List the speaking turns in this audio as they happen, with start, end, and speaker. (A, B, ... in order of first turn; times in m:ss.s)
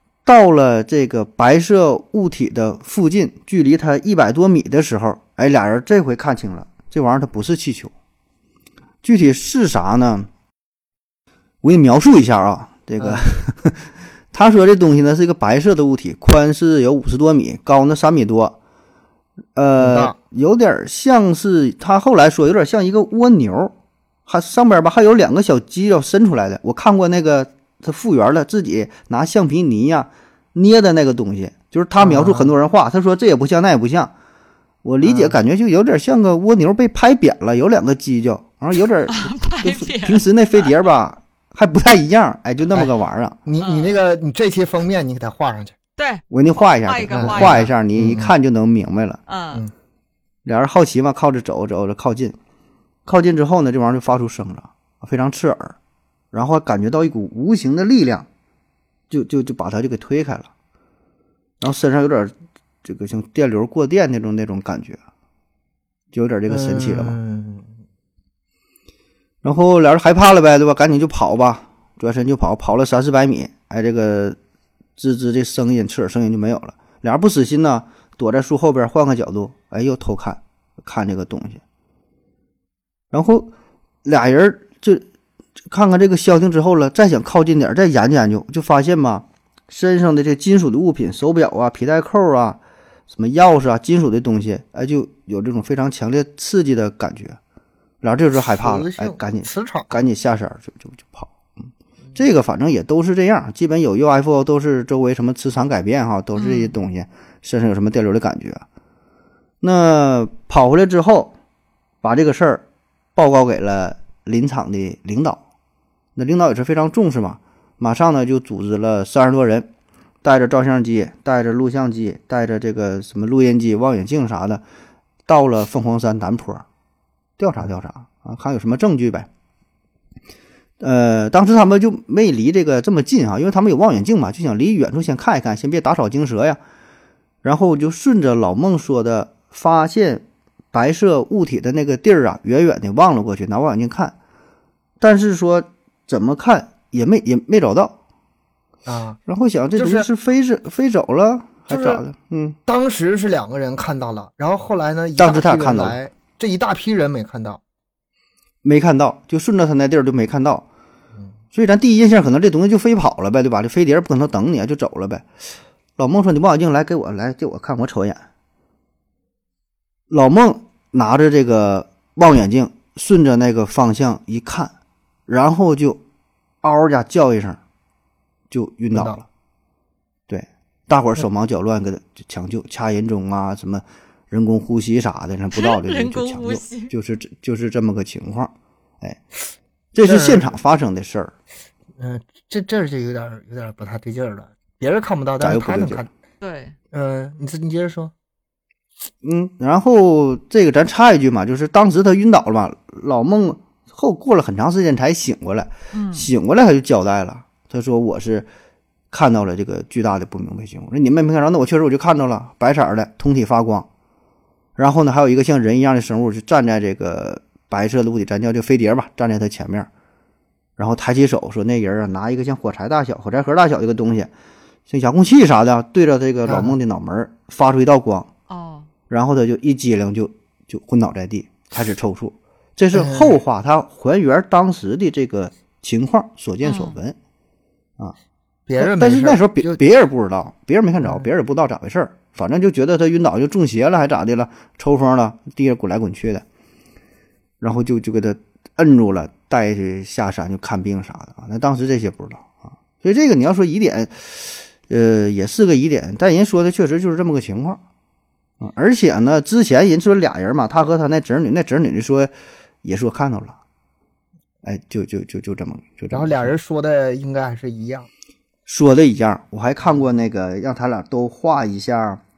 0:00.2-0:07.9 A
0:09.0-0:10.3 A
0:11.6-0:18.6 A
0:13.0-0:13.4 B
0:19.6-0:23.8 A
0:19.8-0:20.2 B
0:24.3-0:34.1 A
0:32.0-0:32.5 B
0:34.8-0:43.4 A
0:35.0-0:35.4 B
0:39.1-0:40.7 C
0:43.5-0:45.8 B
0:43.6-0:44.0 C
0:46.0-0:46.2 C
0:46.3-0:49.2 A
0:46.8-0:47.6 C
0:47.1-0:48.3 B
0:49.3-0:49.6 C
0:50.5-0:52.4 A
0:53.1-0:55.8 A
0:56.3-0:58.3 A
0:59.1-1:00.5 A
1:01.6-1:05.0 A
1:06.1-1:07.2 A
1:06.5-1:07.7 B
1:09.4-1:14.4 A
1:15.0-1:21.6 A
1:23.1-1:23.5 A
1:24.0-1:25.1 A
1:25.7-1:37.4 A
1:38.0-1:48.6 A
1:38.4-1:39.9 B
1:46.4-1:46.8 C
1:49.6-1:51.3 A
1:52.0-1:52.6 A
1:53.2-1:55.4 A
1:56.2-1:59.7 A
2:00.2-2:04.6 A
2:05.3-2:06.7 A
2:07.4-2:09.3 A
2:10.8-2:16.6 A
2:17.4-2:24.2 A
2:25.0-2:28.0 A
2:28.9-2:29.2 B
2:29.3-2:32.6 A
2:29.8-2:30.1 B
2:31.7-2:32.0 B
2:32.7-2:37.6 B
2:35.2-2:36.0 A
2:38.6-2:40.6 A
2:41.5-2:45.3 A
2:46.0-2:48.2 A
2:50.1-2:54.7 A
2:55.3-2:56.0 A
2:56.6-2:57.6 A
2:58.5-2:59.2 A
2:58.9-2:59.2 B
3:00.3-3:09.2 A
3:05.6-3:06.9 C
3:09.9-3:11.3 A
3:10.0-3:10.5 B
3:12.0-3:16.1 B
3:15.4-3:16.0 A
3:16.4-3:16.8 C
3:16.9-3:18.1 B
3:19.2-3:28.5 A
3:25.9-3:26.3 C
3:29.1-3:33.9 A
3:34.8-3:39.9 A
3:40.8-3:44.3 A
3:44.9-3:48.3 A
3:46.5-3:46.8 B
3:48.5-3:48.9 C
3:49.1-3:57.2 A
3:52.9-3:53.4 B
3:56.6-3:57.0 C
3:58.7-3:59.8 B
3:58.8-4:06.4 A
4:07.6-4:17.8 A
4:18.6-4:22.3 A
4:22.8-4:23.6 A
4:24.6-4:26.5 A
4:26.1-4:28.1 B
4:28.7-4:32.2 A